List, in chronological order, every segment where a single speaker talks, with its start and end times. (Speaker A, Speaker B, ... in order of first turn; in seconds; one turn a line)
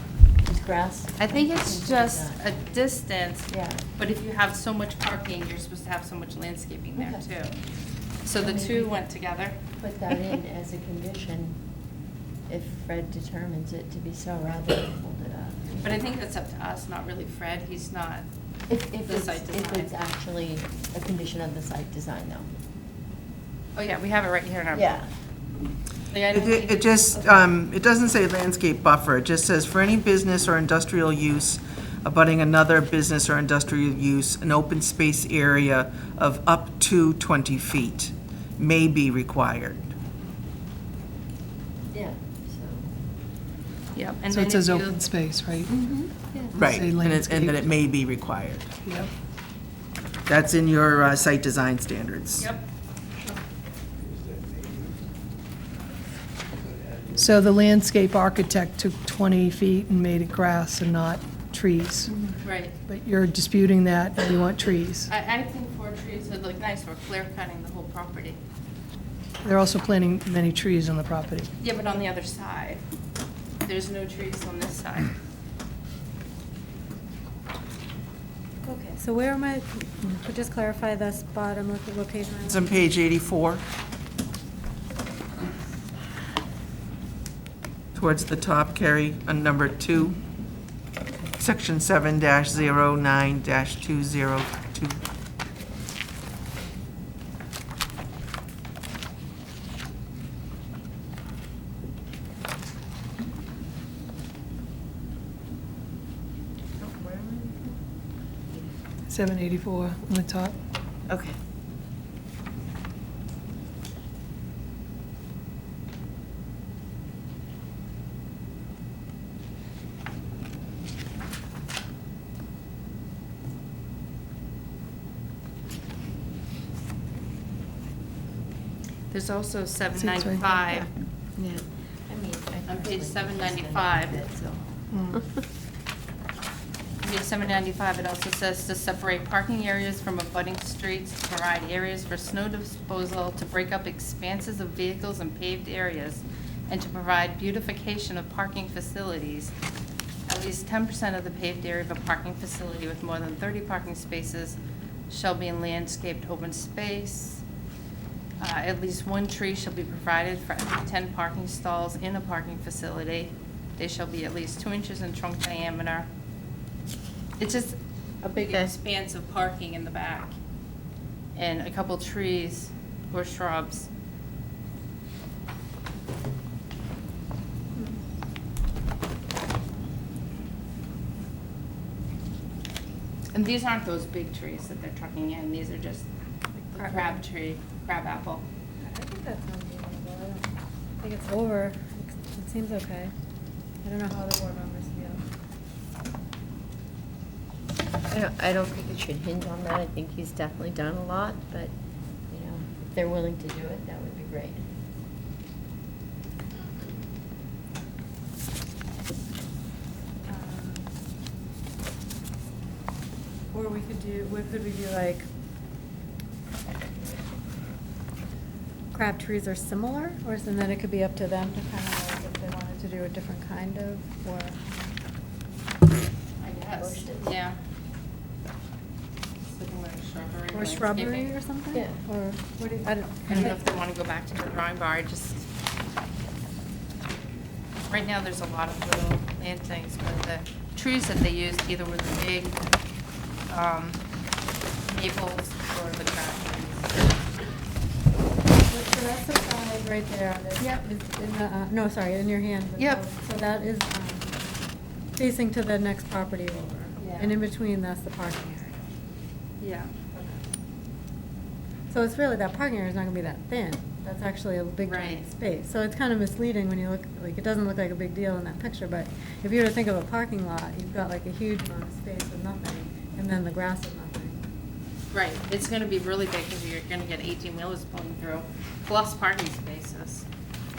Speaker A: 0.4-2.9
Speaker B: 1.2-7.5
Speaker A: 3.5-3.8
Speaker A: 7.0-7.2
Speaker B: 8.2-9.6
Speaker A: 8.3-9.0
Speaker A: 9.8-11.6
Speaker A: 12.5-15.9
Speaker B: 15.8-18.2
Speaker A: 18.7-22.5
Speaker B: 19.0-19.9
Speaker B: 23.8-25.0
Speaker A: 24.7-25.1
Speaker B: 26.1-27.0
Speaker C: 26.3-39.9
Speaker A: 41.9-42.9
Speaker B: 43.9-45.1
Speaker D: 44.3-45.7
Speaker A: 45.7-46.5
Speaker D: 46.5-47.7
Speaker C: 46.5-48.7
Speaker D: 48.8-49.1
Speaker C: 50.3-52.5
Speaker B: 52.4-52.6
Speaker D: 57.1-62.3
Speaker B: 62.4-62.7
Speaker D: 62.9-65.1
Speaker B: 65.1-68.4
Speaker D: 69.4-71.5
Speaker B: 71.6-72.8
Speaker B: 73.6-75.1
Speaker E: 78.6-82.9
Speaker C: 82.5-83.6
Speaker C: 87.9-90.2
Speaker C: 91.4-95.0
Speaker A: 106.8-107.8
Speaker D: 109.1-110.5
Speaker A: 111.1-111.3
Speaker B: 129.1-130.9
Speaker D: 129.9-130.5
Speaker A: 131.4-134.6
Speaker B: 132.7-134.2
Speaker D: 134.9-135.2
Speaker B: 137.0-149.5
Speaker B: 150.3-154.6
Speaker B: 155.1-157.4
Speaker B: 158.4-166.1
Speaker B: 167.4-170.3
Speaker A: 168.4-168.7
Speaker B: 171.3-173.9
Speaker B: 183.3-186.1
Speaker E: 186.6-187.2
Speaker B: 186.7-188.4
Speaker E: 188.8-190.5
Speaker E: 191.0-193.1
Speaker E: 193.8-195.2
Speaker A: 198.1-201.7
Speaker A: 202.3-204.7
Speaker E: 210.3-210.9
Speaker E: 213.5-215.3
Speaker E: 218.9-224.7
Speaker B: 226.4-227.6
Speaker A: 226.8-227.3
Speaker B: 229.5-231.3
Speaker E: 230.5-233.7
Speaker A: 231.7-232.0
Speaker B: 233.3-235.5
Speaker B: 237.9-242.7
Speaker B: 243.5-244.0
Speaker B: 244.9-247.0
Speaker E: 248.5-254.4
Speaker B: 250.6-250.8
Speaker B: 252.8-253.0
Speaker E: 255.2-258.9
Speaker B: 257.0-257.4
Speaker B: 259.6-260.2
Speaker E: 261.9-274.4
Speaker B: 264.8-265.3
Speaker B: 275.1-280.2